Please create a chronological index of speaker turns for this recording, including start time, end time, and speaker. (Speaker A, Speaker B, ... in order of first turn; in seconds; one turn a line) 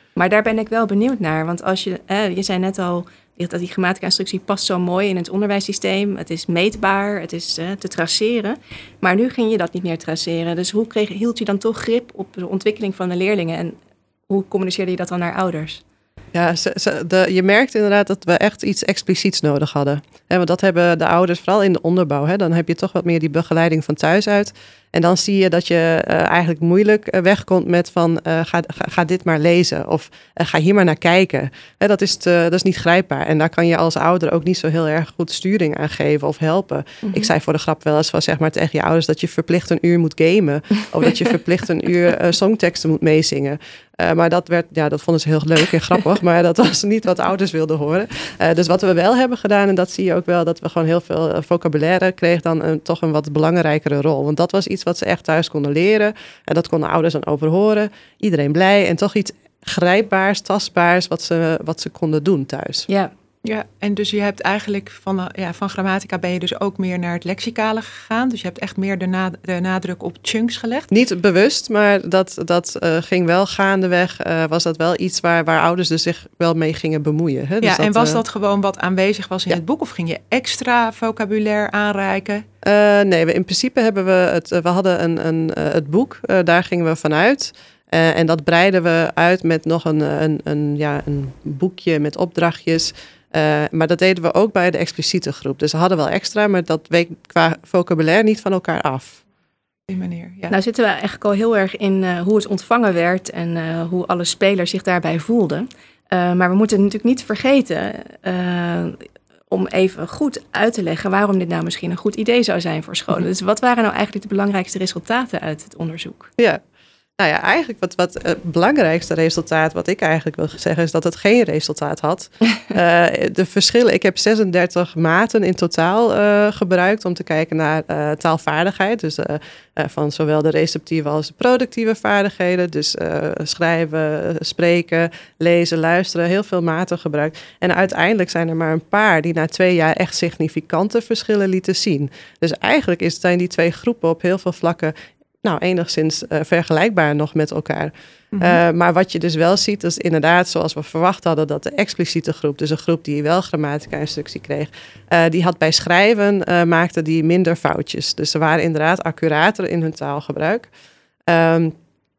Speaker A: 0.1-13.8
Speaker A: 14.3-15.8
Speaker B: 16.3-62.9
Speaker C: 63.4-70.9
Speaker B: 70.9-78.2
Speaker C: 77.6-82.4
Speaker B: 82.6-99.2
Speaker C: 99.9-100.5
Speaker A: 100.5-116.3
Speaker B: 117.2-160.7
Speaker C: 148.3-148.6
Speaker B: 161.3-161.7